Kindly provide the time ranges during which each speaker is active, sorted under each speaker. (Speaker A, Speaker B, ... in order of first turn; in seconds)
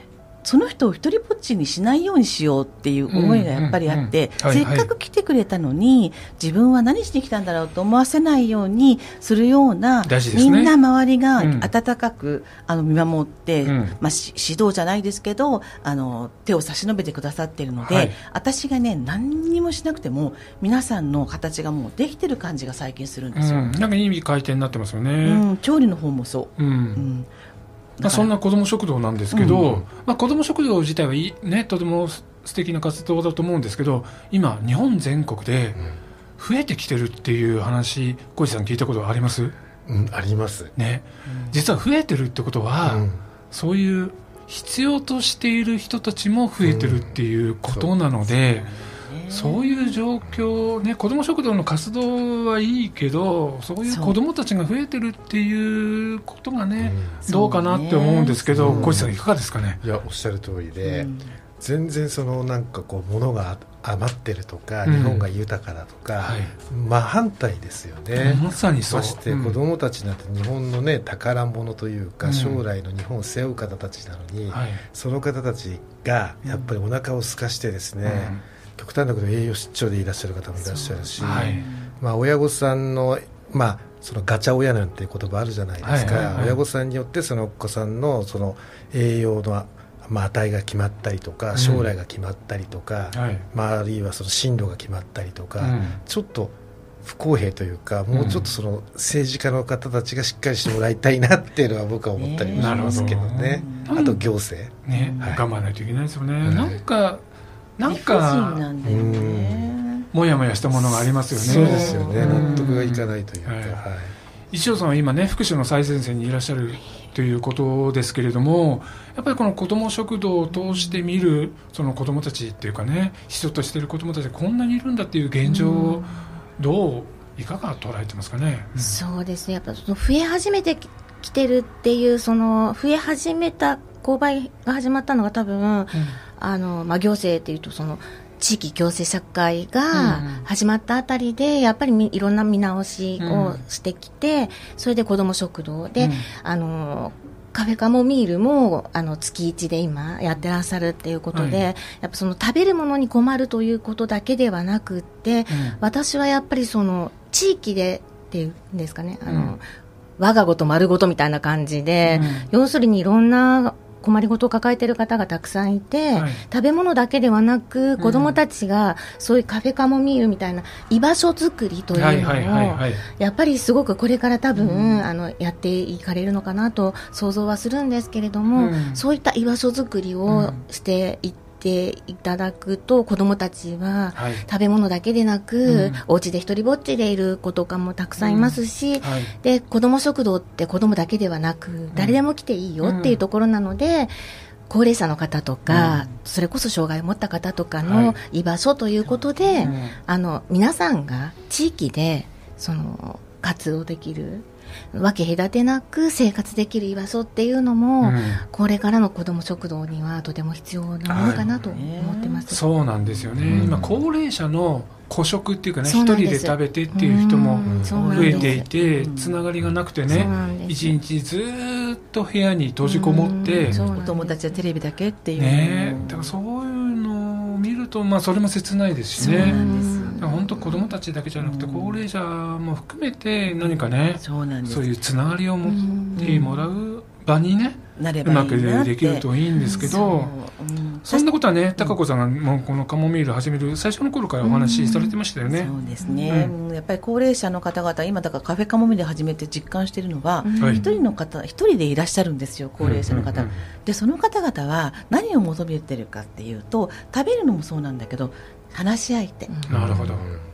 Speaker A: 0.4-23.7, 25.2-27.3, 28.0-28.3, 29.3-29.6, 41.3-41.5, 48.4-50.0, 53.9-54.1, 57.3-59.0, 60.8-61.3, 80.6-81.9, 102.2-104.1, 104.9-105.4, 107.8-110.1, 111.3-112.7, 211.2-212.5, 217.9-219.4, 223.7-226.3, 229.2-230.3, 231.4-232.0, 233.5-234.9, 236.1-236.5, 238.0-241.9, 245.5-259.5
Speaker B: 3.1-4.9, 10.0-10.7, 11.4-11.7, 13.6-13.9, 17.8-18.1, 23.3-25.4, 26.6-27.0, 28.0-35.8, 36.4-39.5, 40.8-48.7, 49.3-59.8, 64.8-65.2, 66.2-66.5, 68.2-69.6, 72.2-72.6, 74.5-74.8, 78.0-78.4, 81.2-81.6, 85.8-86.6, 91.5-91.9, 93.1-93.4, 95.6-96.0, 98.1-98.5, 102.5-104.2, 104.8-107.2, 107.8-108.6, 110.1-113.8, 114.5-129.0, 139.9-140.4, 143.2-143.6, 146.0-146.2, 151.3-151.6, 155.5-155.8, 159.2-159.5, 162.0-162.5, 166.1-166.4, 168.0-168.3, 171.9-173.0, 174.6-175.1, 178.5-179.0, 180.3-180.6, 184.1-184.4, 185.6-186.0, 188.2-189.3, 191.9-192.2, 192.8-193.2, 195.7-196.0, 197.8-198.2, 199.5-199.9, 208.0-208.4, 211.1-211.4, 212.5-223.8, 225.4-229.6, 230.2-240.3, 241.1-245.7, 246.3-246.5, 252.8-253.6, 259.7-260.2
Speaker C: 29.4-29.8, 39.9-40.7, 42.8-43.2, 46.6-47.9, 56.8-57.2, 58.5-59.1, 59.8-105.4, 106.4-106.8, 108.8-109.7, 111.3-114.1, 211.1-211.4, 213.4-214.0, 217.7-217.9, 219.6-220.3, 259.7-260.4
Speaker D: 125.4-126.1, 128.8-159.6, 160.2-194.1, 194.7-212.6, 215.8-218.7, 220.1-221.0, 222.8-224.4, 229.2-230.8, 235.6-236.6, 239.5-240.0, 244.4-245.1, 246.0-246.3, 250.4-251.0